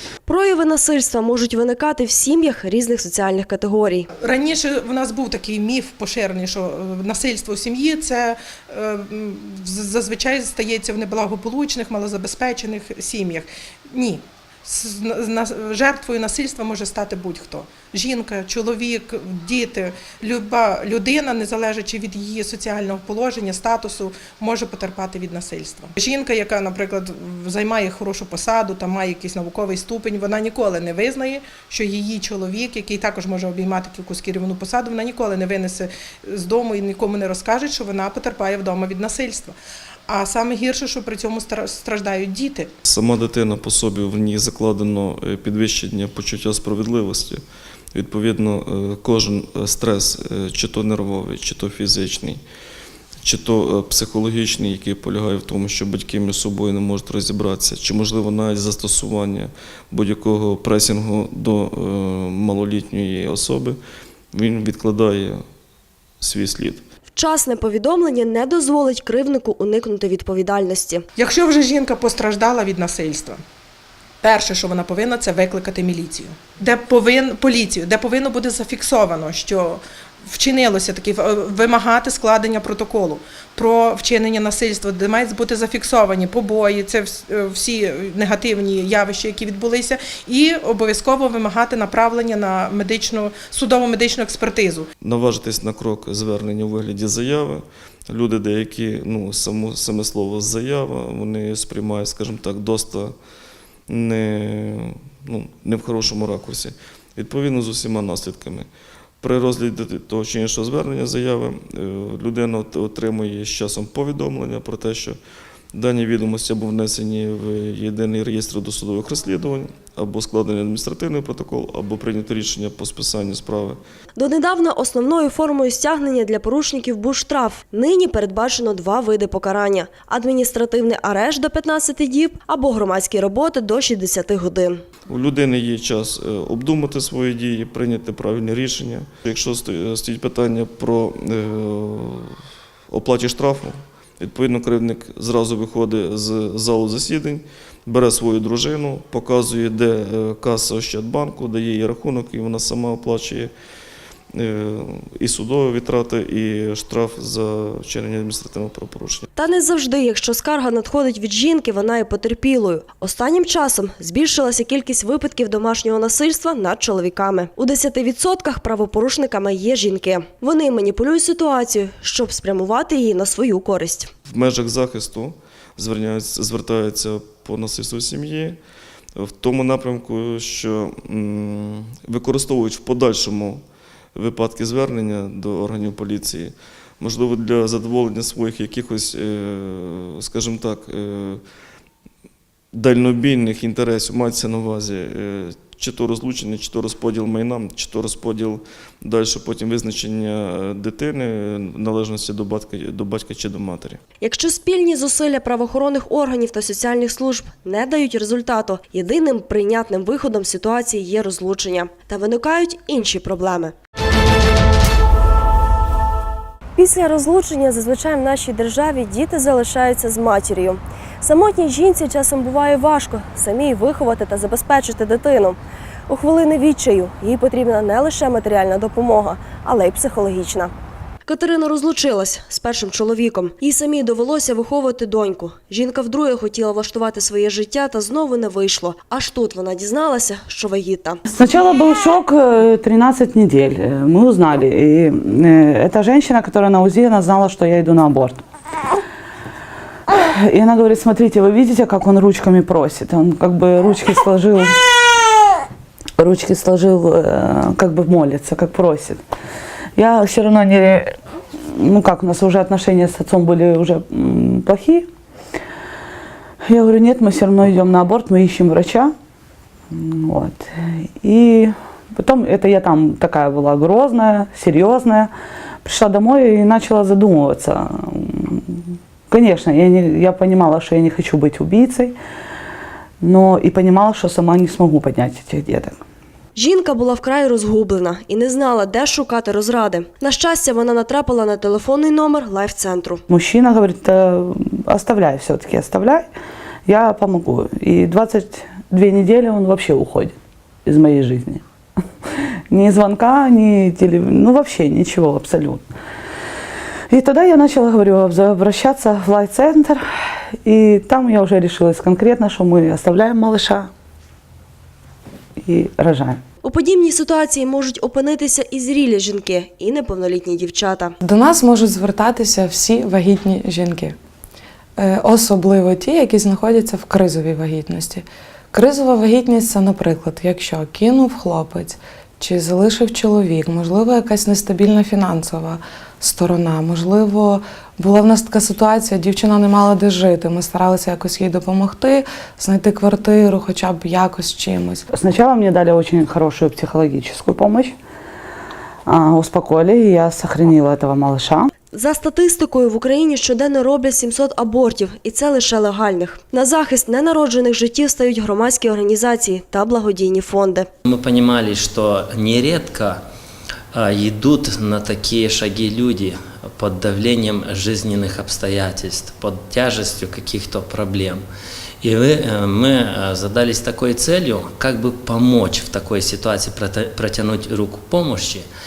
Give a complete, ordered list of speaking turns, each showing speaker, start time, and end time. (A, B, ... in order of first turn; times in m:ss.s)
0:00.3-0:04.1 A
0:04.2-0:39.5 B
0:40.1-0:42.7 B
0:42.8-0:47.4 C
0:47.9-0:52.4 C
0:53.2-1:03.8 C
1:04.3-1:05.4 C
1:06.2-1:06.8 C
1:07.1-1:11.0 A
1:11.2-1:13.4 B
1:14.2-1:34.9 B
1:35.0-1:43.1 C
1:43.9-1:48.7 C
1:49.2-1:55.2 C
1:55.7-2:03.8 C
2:04.2-2:14.8 A
2:15.1-2:22.4 C
2:22.9-2:33.5 C
2:34.3-2:39.3 C
2:39.4-2:54.1 A
2:54.2-2:58.6 C
2:59.2-3:03.6 C
3:04.1-3:11.4 C
3:12.7-3:24.0 C
3:24.2-3:33.7 A
3:36.8-3:50.7 A
3:51.2-4:01.2 A
4:01.3-4:08.4 D
4:10.1-4:14.9 D
4:16.2-4:19.2 D
4:20.0-4:21.2 D
4:21.7-4:25.1 D
4:26.7-4:29.1 D
4:29.9-4:35.3 D
4:35.8-4:42.2 D
4:43.2-4:46.0 D
4:46.6-4:53.2 A
4:53.3-4:56.3 D
4:56.8-5:01.6 D
5:02.7-5:05.8 D
5:07.1-5:10.0 D
5:10.6-5:13.9 D
5:15.6-5:16.4 D
5:16.6-5:21.1 A
5:21.2-5:24.2 E
5:25.0-5:45.0 E
5:45.1-5:47.9 D
5:49.0-5:51.7 D
5:51.9-6:00.9 A
6:01.0-6:03.2 F
6:03.9-6:11.4 F
6:12.0-6:18.7 F